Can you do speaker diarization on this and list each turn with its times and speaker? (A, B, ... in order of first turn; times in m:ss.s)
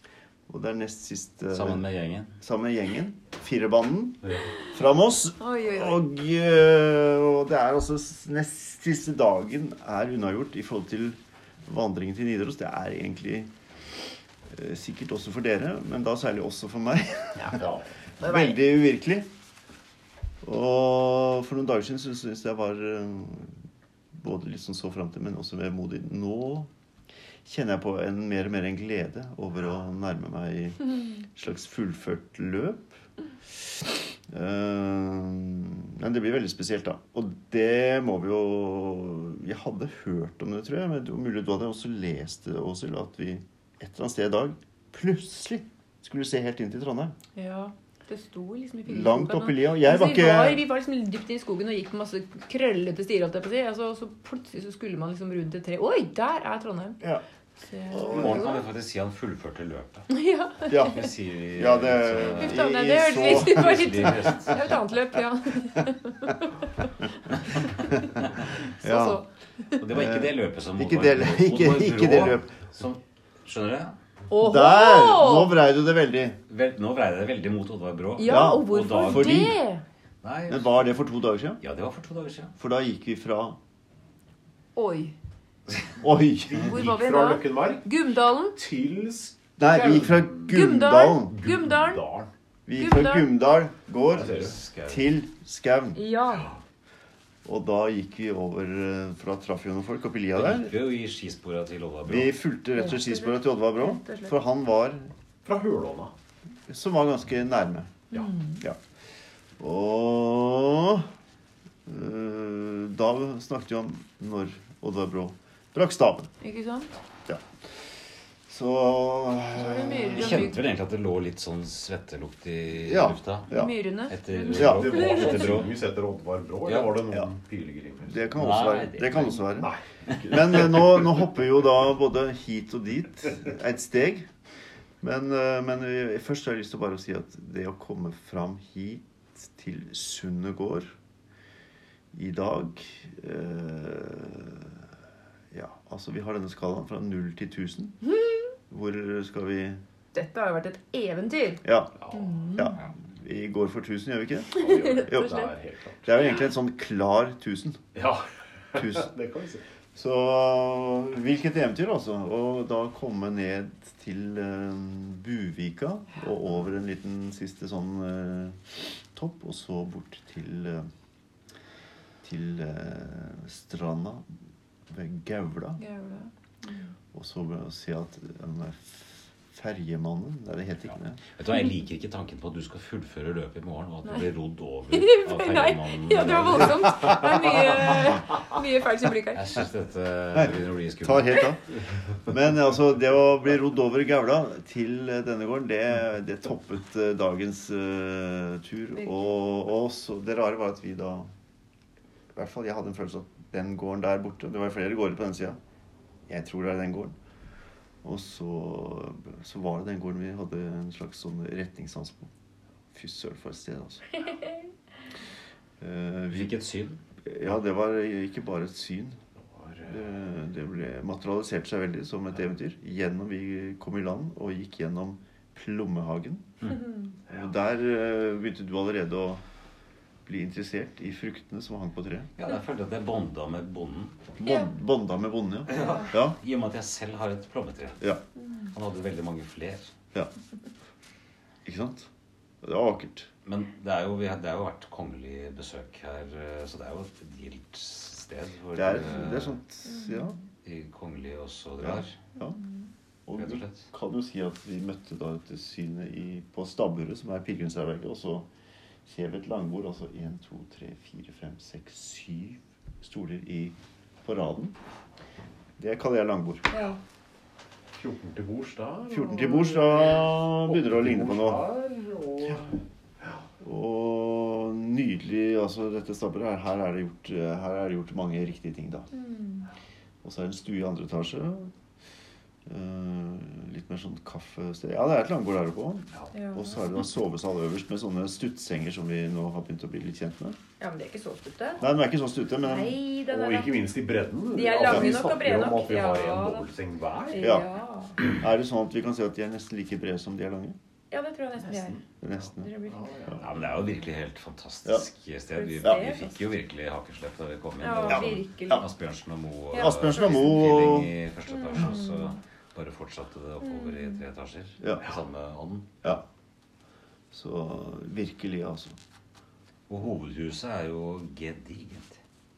0:00.5-0:01.8 A
0:01.5-0:02.4 B
0:02.4-0:13.5 A
0:05.4-0:06.0 C
0:14.5-0:17.6 A
0:17.4-0:18.6 C
0:17.6-0:17.9 D
0:18.2-0:19.3 A
0:20.4-0:23.5 A
0:24.2-0:26.7 A
0:27.4-0:33.0 A
0:33.6-0:47.1 A
0:47.4-0:57.0 C
0:48.9-0:50.7 A
0:57.6-0:58.6 C
0:57.9-0:58.6 A
0:58.1-1:00.1 B
1:00.1-1:01.1 C
1:00.7-1:04.7 B
1:00.7-1:04.4 A
1:02.4-1:09.7 C
1:07.8-1:08.2 A
1:08.8-1:09.2 A
1:09.8-1:14.0 B
1:09.9-1:12.6 A
1:14.3-1:15.6 C
1:14.4-1:16.4 A
1:16.5-1:19.5 B
1:18.2-1:19.8 C
1:18.2-1:19.6 A
1:20.2-1:20.9 B
1:20.5-1:21.6 A
1:21.6-1:22.5 B
1:22.6-1:23.6 A
1:24.8-1:25.2 C
1:26.0-1:26.7 A
1:26.5-1:28.6 C
1:26.6-1:29.5 D
1:29.6-1:31.4 A
1:29.7-1:32.0 C
1:31.3-1:32.3 D
1:32.7-1:36.0 A
1:32.8-1:33.3 C
1:34.1-1:34.6 D
1:34.1-1:35.1 B
1:36.0-1:36.5 C
1:36.3-1:36.6 D
1:37.4-1:40.8 A
1:40.3-1:42.4 B
1:42.0-1:45.1 A
1:42.7-1:44.3 C
1:45.4-1:46.1 D
1:46.7-1:48.0 A
1:48.1-1:48.6 C
1:49.6-1:51.1 A
1:51.8-1:56.3 A
1:56.4-1:56.9 C
1:58.5-2:00.6 A
1:59.6-2:00.6 C
2:00.1-2:05.7 B
2:02.8-2:03.7 A
2:03.5-2:05.6 C
2:04.5-2:08.2 D
2:04.5-2:04.9 A
2:06.6-2:07.0 B
2:08.0-2:14.3 A
2:08.4-2:10.2 B
2:09.6-2:11.2 D
2:15.0-2:20.9 A
2:22.1-2:24.9 A
2:25.5-2:28.0 A
2:28.7-2:29.8 A
2:30.1-2:32.8 C
2:31.6-2:32.0 A
2:32.0-2:32.6 D
2:32.5-2:35.5 A
2:34.5-2:35.5 C
2:34.6-2:36.2 D
2:36.1-2:37.8 A
2:37.9-2:39.6 D
2:38.8-2:39.1 A
2:39.9-2:50.9 A
2:52.2-2:54.2 A
2:54.9-2:55.8 A
2:55.8-2:56.9 C
2:57.1-3:01.2 A
3:01.4-3:07.9 B
3:04.9-3:09.6 C
3:09.2-3:11.5 B
3:11.0-3:11.6 A
3:12.2-3:21.3 A
3:22.3-3:25.6 A
3:26.3-3:27.2 A
3:28.0-3:32.3 A
3:32.9-3:34.3 A
3:35.8-3:36.6 A
3:36.3-3:37.0 B
3:37.2-3:39.2 A
3:39.4-3:40.1 D
3:39.8-3:46.7 A
3:46.8-3:47.2 C
3:47.3-3:49.4 A
3:50.2-3:52.3 A
3:52.4-3:54.3 B
3:54.4-3:56.4 A
3:54.4-3:54.7 C
3:55.7-3:58.1 B
3:58.7-3:59.9 B
4:01.6-4:02.1 A
4:02.6-4:03.3 A
4:03.4-4:09.6 B
4:08.7-4:10.4 A
4:09.9-4:10.4 C
4:10.6-4:12.2 B
4:11.8-4:12.6 A
4:12.4-4:12.9 C
4:13.3-4:18.5 A
4:13.4-4:13.9 B
4:19.1-4:24.8 A
4:25.8-4:26.8 A
4:26.7-4:27.0 C
4:28.0-4:33.4 D
4:29.1-4:31.7 A
4:33.6-4:39.1 A
4:39.1-4:39.7 C
4:40.2-4:41.7 A
4:42.7-4:50.6 A
4:46.3-4:46.8 C
4:50.8-4:51.8 C
4:51.8-4:53.0 A
4:52.6-4:53.8 C
4:53.3-4:57.6 D
4:54.5-4:56.7 C
4:54.8-4:55.2 A
4:57.3-4:58.2 C
4:57.4-4:57.7 A
4:58.2-5:00.8 A
5:01.1-5:03.3 C
5:01.6-5:02.0 D
5:02.2-5:02.7 A
5:02.9-5:03.7 D
5:03.4-5:16.2 B
5:05.6-5:06.4 C
5:05.8-5:06.1 A
5:07.8-5:08.9 C
5:08.1-5:08.9 A
5:09.7-5:10.7 C
5:09.7-5:11.1 A
5:11.5-5:12.4 C
5:13.6-5:14.2 C
5:14.8-5:15.1 A
5:17.3-5:19.0 A
5:19.9-5:22.2 B